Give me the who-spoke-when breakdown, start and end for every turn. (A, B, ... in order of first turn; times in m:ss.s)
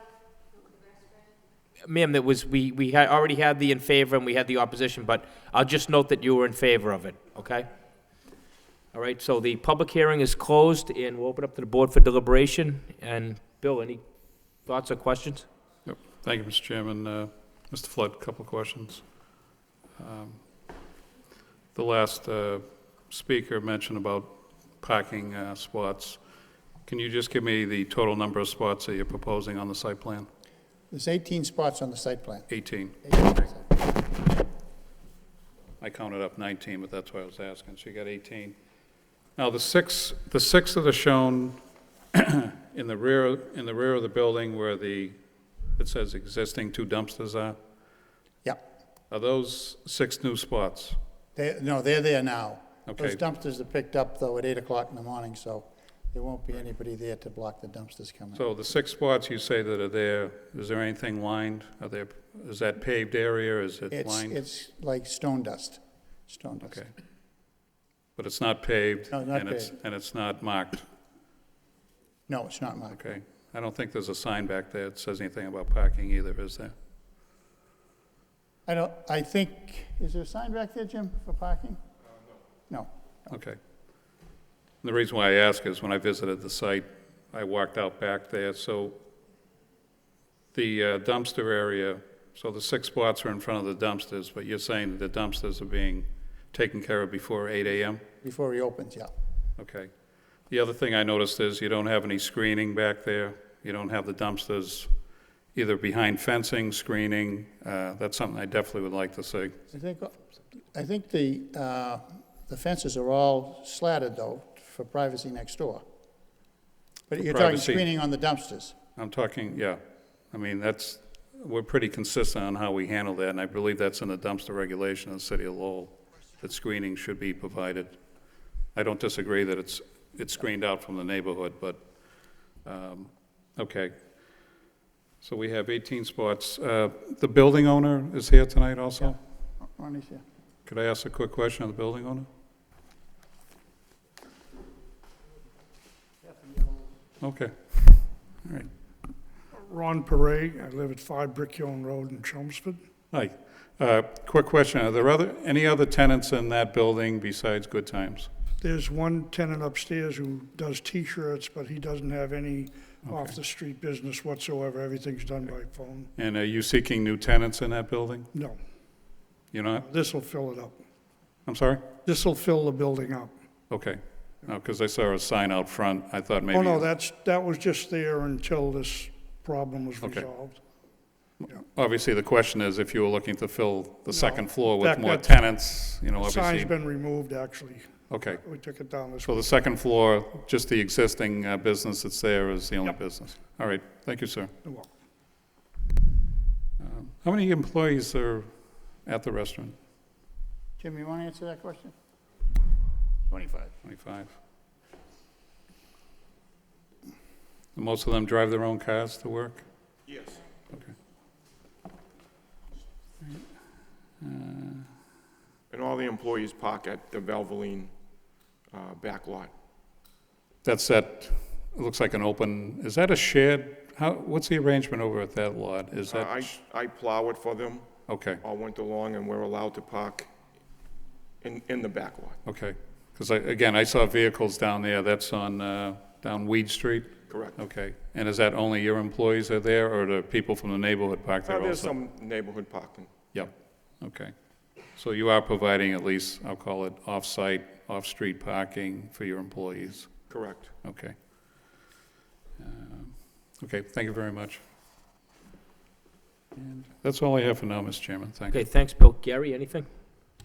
0:01.9-0:07.7 A
0:08.9-0:14.0 A
0:14.7-0:15.5 A
0:15.9-0:19.0 B
0:20.0-0:20.4 B
0:21.8-0:26.2 B
0:26.9-0:30.3 B
0:30.9-0:32.5 C
0:32.5-0:33.3 B
0:33.0-0:33.9 C
0:35.8-0:38.6 B
0:39.4-0:41.6 B
0:42.1-0:45.2 B
0:45.8-0:47.6 B
0:49.1-0:51.0 B
0:51.4-0:58.4 C
0:52.9-0:53.2 B
0:58.3-1:04.4 B
1:03.9-1:06.8 C
1:06.6-1:06.9 B
1:08.2-1:10.8 B
1:09.1-1:09.7 C
1:12.3-1:13.0 C
1:12.9-1:16.7 B
1:18.7-1:21.8 C
1:23.3-1:23.6 B
1:24.8-1:29.0 B
1:30.5-1:38.0 B
1:38.2-1:39.1 C
1:39.6-1:39.9 B
1:40.5-1:44.9 B
1:45.6-1:49.6 B
1:49.7-1:50.1 C
1:50.7-1:55.8 C
1:57.1-1:58.7 C
1:57.2-1:57.8 B
1:59.0-1:59.8 B
2:00.3-2:08.0 B
2:08.7-2:11.8 B
2:12.6-2:13.9 B
2:15.2-2:19.2 B
2:19.6-2:20.2 C
2:20.7-2:22.3 B
2:26.3-2:26.8 C
2:27.2-2:28.7 B
2:29.5-2:32.8 D
2:33.1-2:38.3 B
2:38.6-2:46.1 D
2:46.2-2:48.3 B
2:48.3-2:48.6 D
2:49.5-2:49.8 B
2:49.8-2:50.8 D
2:51.5-2:51.8 B
2:52.0-2:53.3 D
2:53.7-2:56.9 B
2:56.5-3:00.6 D
3:00.0-3:00.3 B
3:01.4-3:06.7 B
3:04.1-3:05.4 D
3:06.0-3:09.5 D
3:08.1-3:08.4 B
3:09.3-3:14.5 B
3:16.8-3:18.5 B
3:19.0-3:19.8 B
3:20.8-3:21.9 C
3:23.3-3:23.7 C
3:23.8-3:24.3 B
3:27.8-3:29.6 B
3:34.2-3:34.9 B
3:35.7-3:37.9 E
3:38.7-3:39.5 E
3:40.6-3:46.5 B
3:46.1-3:47.8 E
3:48.1-3:48.4 B
3:48.4-3:50.3 E
3:51.4-3:52.3 E
3:52.5-4:01.9 B
4:01.5-4:03.1 E
4:03.3-4:04.3 B
4:05.0-4:10.3 B
4:10.8-4:11.2 B
4:12.6-4:14.6 B
4:16.6-4:18.6 B
4:18.5-4:19.9 A